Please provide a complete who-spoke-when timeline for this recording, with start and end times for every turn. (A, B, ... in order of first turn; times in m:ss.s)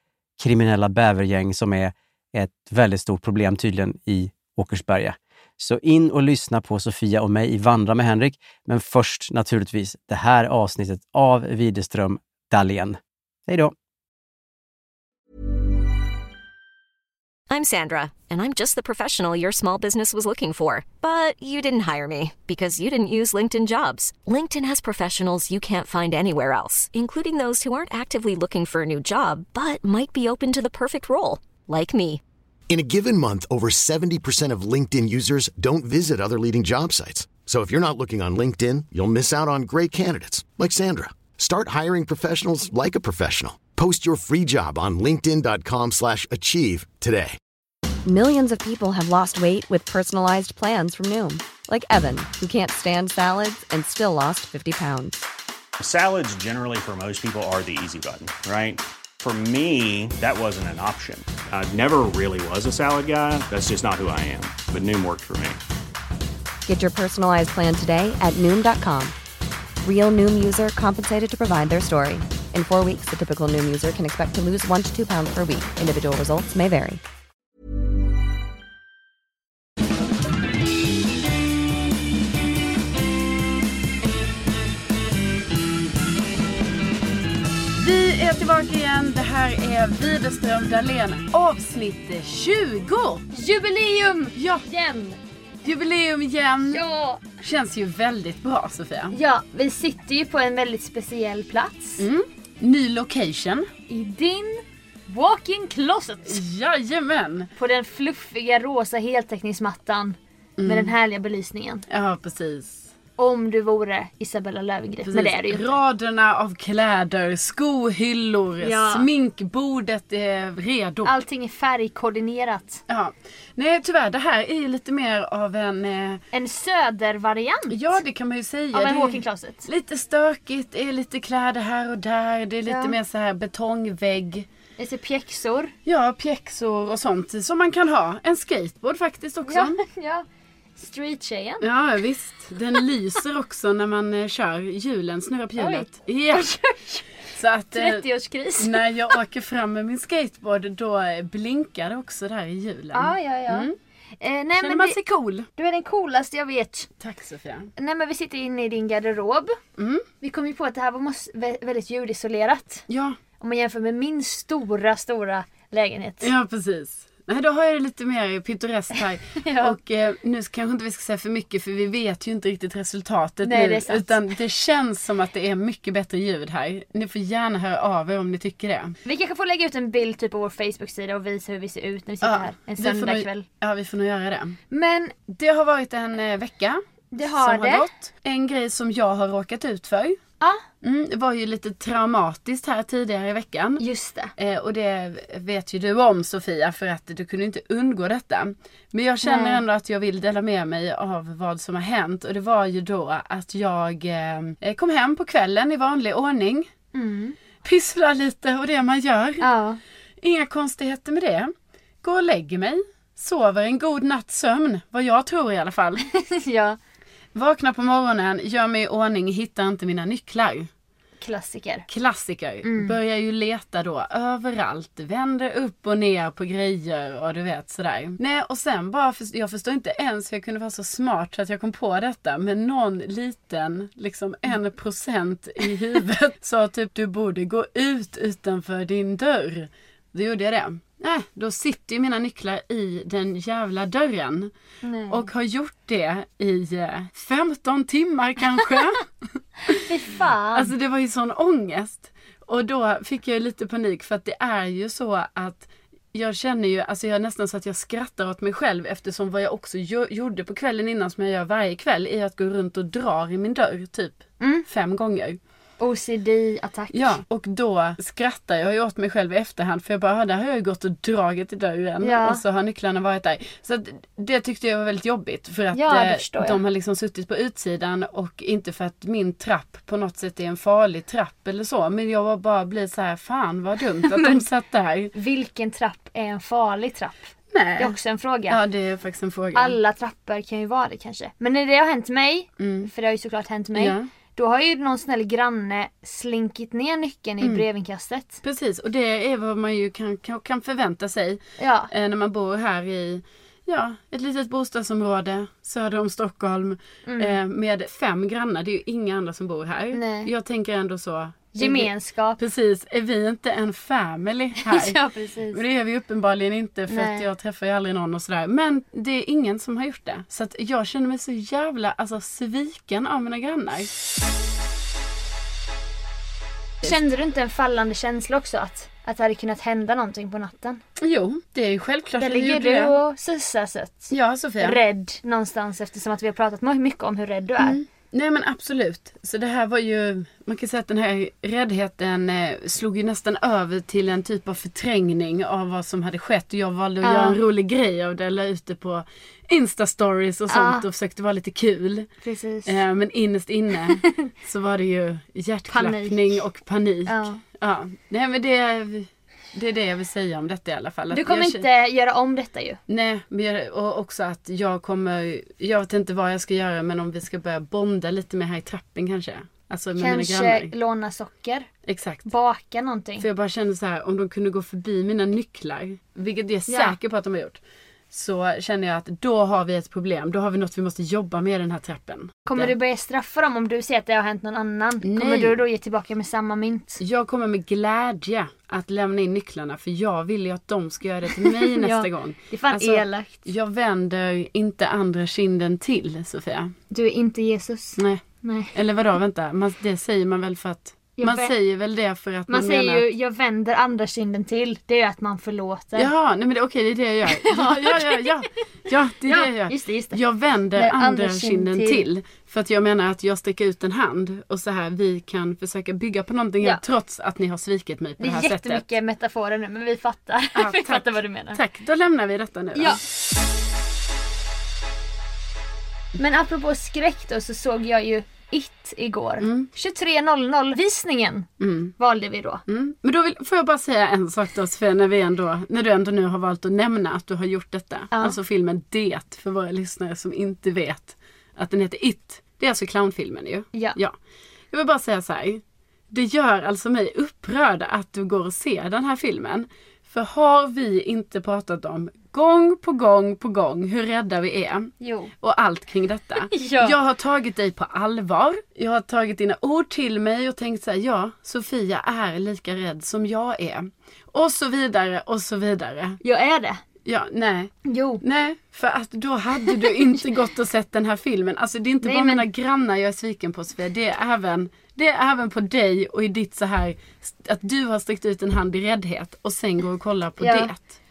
0:00.4-0:13.7 A
0:17.5-0:32.2 B
0:32.7-0:47.4 C
0:48.0-0:55.2 D
0:55.8-1:05.6 E
1:06.7-1:09.1 D
1:09.8-1:17.0 D
1:27.7-1:33.2 F
1:33.3-1:35.2 G
1:34.3-1:34.6 F
1:35.6-1:36.8 F
1:36.7-1:37.2 G
1:37.4-1:39.2 F
1:39.1-1:42.1 G
1:42.0-1:43.7 F
1:43.9-1:46.4 G
1:46.2-1:47.5 F
1:47.6-1:51.8 G
1:50.6-1:50.9 F
1:51.9-1:52.9 F
1:53.2-1:55.7 G
1:55.0-2:01.1 F
1:58.6-1:59.1 G
2:01.0-2:02.8 G
2:02.9-2:06.2 F
2:06.3-2:08.0 G
2:07.7-2:14.5 F
2:08.7-2:09.7 G
2:12.6-2:13.0 G
2:14.8-2:15.7 G
2:15.8-2:19.8 F
2:19.4-2:20.2 G
2:20.8-2:21.7 G
2:21.6-2:26.5 F
2:25.6-2:27.1 G
2:27.3-2:33.7 F
2:27.7-2:29.2 G
2:32.9-2:33.7 G
2:34.2-2:35.0 G
2:34.6-2:35.5 F
2:35.6-2:36.9 G
2:37.0-2:37.7 F
2:37.8-2:39.6 G
2:39.8-2:40.0 F
2:40.2-2:42.9 G
2:42.9-2:43.2 F
2:43.4-2:46.3 G
2:46.2-2:58.9 F
2:49.4-2:49.8 G
2:53.4-2:54.2 G
2:59.0-3:03.4 G
3:02.2-3:04.6 F
3:04.7-3:05.2 G
3:05.3-3:10.2 F
3:07.1-3:07.9 G
3:10.8-3:13.8 F
3:13.8-3:14.3 G
3:14.4-3:26.7 F
3:19.2-3:19.6 G
3:26.9-3:27.4 G
3:27.6-3:29.4 F
3:29.4-3:29.8 G
3:30.2-3:31.5 F
3:32.0-3:36.0 F
3:36.1-3:36.8 G
3:37.3-3:40.7 F
3:41.2-3:41.8 G
3:41.9-4:04.5 F
3:42.6-3:43.0 G
4:04.8-4:05.3 G
4:05.1-4:09.0 F
4:09.7-4:10.7 G
4:10.5-4:25.4 F
4:24.4-4:24.6 G
4:25.8-4:27.2 G
4:26.9-4:45.1 F
4:32.0-4:32.4 G
4:35.7-4:36.6 G
4:44.0-4:44.4 G
4:45.1-4:47.2 G
4:47.5-4:48.0 F
4:47.8-4:48.6 G
4:48.5-4:49.8 F
4:49.5-4:58.4 G
4:52.6-4:52.9 F
4:53.7-4:54.1 F
4:57.4-4:57.6 F
4:58.4-5:15.0 F
5:01.6-5:01.9 G
5:07.0-5:07.4 G
5:09.9-5:10.3 G
5:11.5-5:12.4 G
5:14.6-5:15.6 G
5:15.5-5:23.9 F
5:16.9-5:17.3 G
5:26.8-5:30.8 G
5:31.0-5:33.0 F
5:32.2-5:37.8 G
5:34.1-5:34.8 F
5:37.6-5:52.1 F
5:47.0-5:47.4 G
5:50.5-5:50.8 G
5:52.2-5:52.8 G
5:52.6-6:01.6 F
5:53.9-5:54.3 G
5:55.7-5:56.4 G
5:57.1-5:57.4 G
6:01.1-6:02.8 G
6:02.9-6:10.7 F
6:10.0-6:11.7 G
6:11.8-6:12.2 F
6:12.2-6:13.3 G
6:13.2-6:22.7 F
6:16.7-6:16.9 G
6:22.4-6:27.0 G
6:25.0-6:25.6 F
6:27.0-6:36.7 F
6:31.4-6:33.5 G
6:36.9-6:38.8 G
6:38.0-6:38.2 F
6:38.7-6:43.1 F
6:41.2-6:41.5 G
6:42.5-6:46.1 G
6:46.0-6:58.9 F
6:47.3-6:48.4 G
6:49.2-6:50.2 G
6:50.7-6:52.0 G
6:58.2-7:01.6 G
7:00.5-7:03.0 F
7:02.7-7:03.0 G
7:06.2-7:12.6 G
7:09.4-7:09.7 F
7:11.6-7:11.9 F
7:12.7-7:24.2 F
7:18.1-7:18.4 G
7:23.7-7:24.0 G
7:24.7-7:46.2 F
7:35.0-7:35.3 G
7:36.4-7:37.0 G
7:46.2-7:46.8 G
7:47.0-8:00.9 F
7:47.8-7:48.2 G
7:49.7-7:50.0 G
7:52.0-7:52.5 G
8:00.4-8:00.7 G